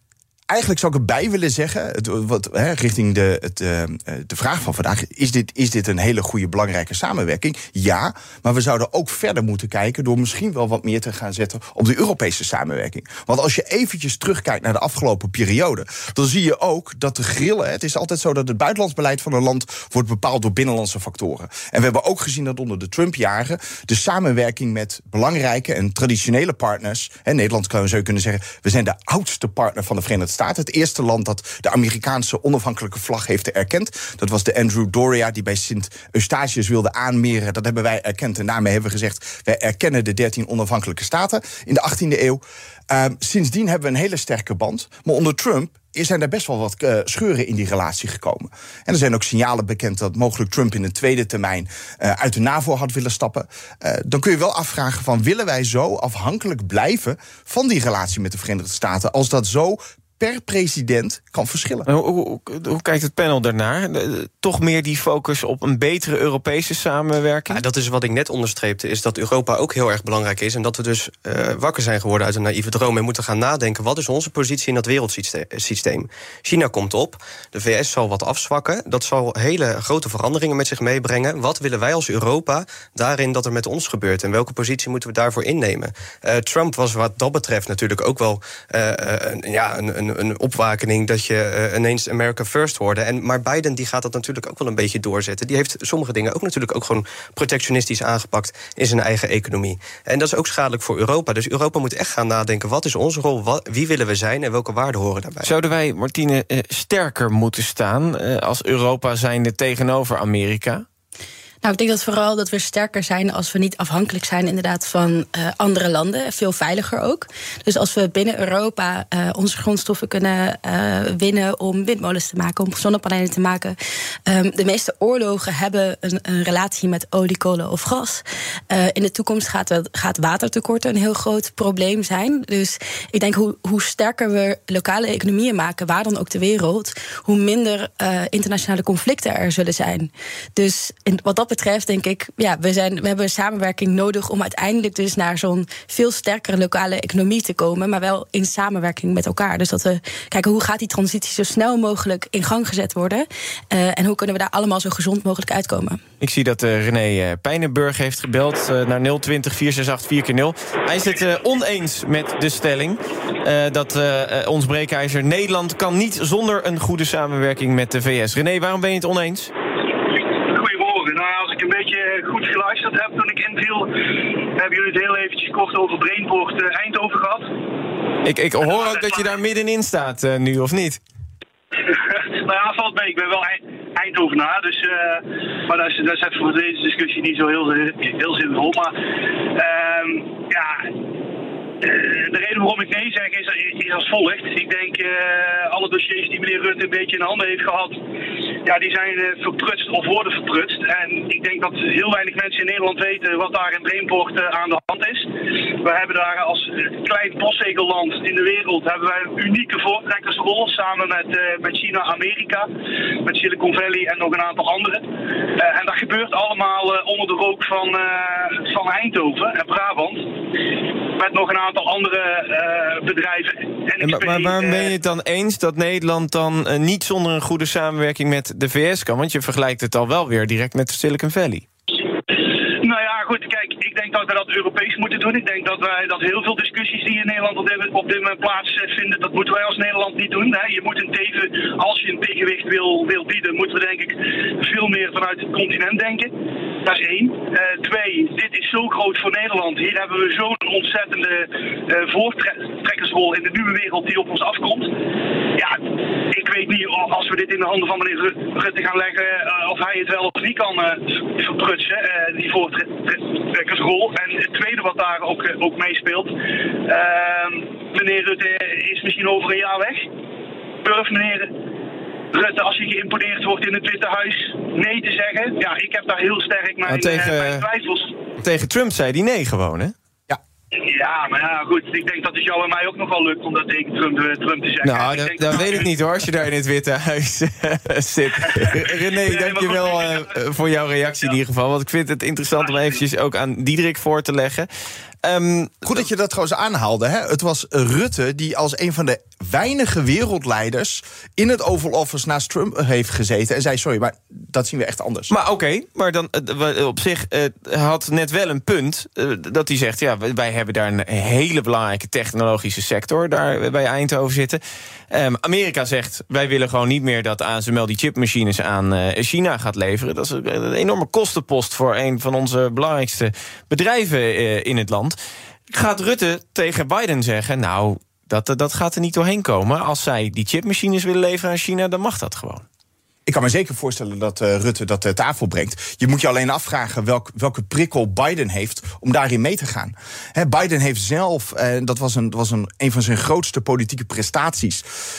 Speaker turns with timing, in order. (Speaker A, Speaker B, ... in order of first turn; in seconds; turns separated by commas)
Speaker A: 0.5-61.9, Speaker B: 61.9-67.6, Speaker C: 67.5-105.5, Speaker B: 105.4-110.8, Speaker D: 111.6-123.8, Speaker D: 124.3-156.0, Speaker B: 156.2-169.5, Speaker E: 170.4-173.9, Speaker E: 174.6-177.5, Speaker B: 178.2-181.0, Speaker E: 178.6-179.2, Speaker E: 181.9-188.9, Speaker E: 189.5-190.8, Speaker E: 191.8-198.0, Speaker E: 198.6-212.7, Speaker E: 213.2-220.2, Speaker E: 221.2-224.9, Speaker B: 224.0-231.7, Speaker E: 232.7-254.9, Speaker E: 256.3-266.3, Speaker E: 266.9-270.1, Speaker E: 270.8-271.5, Speaker E: 272.3-278.1, Speaker B: 276.9-277.7, Speaker B: 278.4-279.9, Speaker E: 280.8-285.9, Speaker B: 284.8-294.7, Speaker E: 288.5-290.3, Speaker B: 295.2-296.0, Speaker A: 295.8-305.3, Speaker B: 305.3-314.6, Speaker B: 315.1-325.2, Speaker B: 325.7-332.6, Speaker A: 333.2-344.8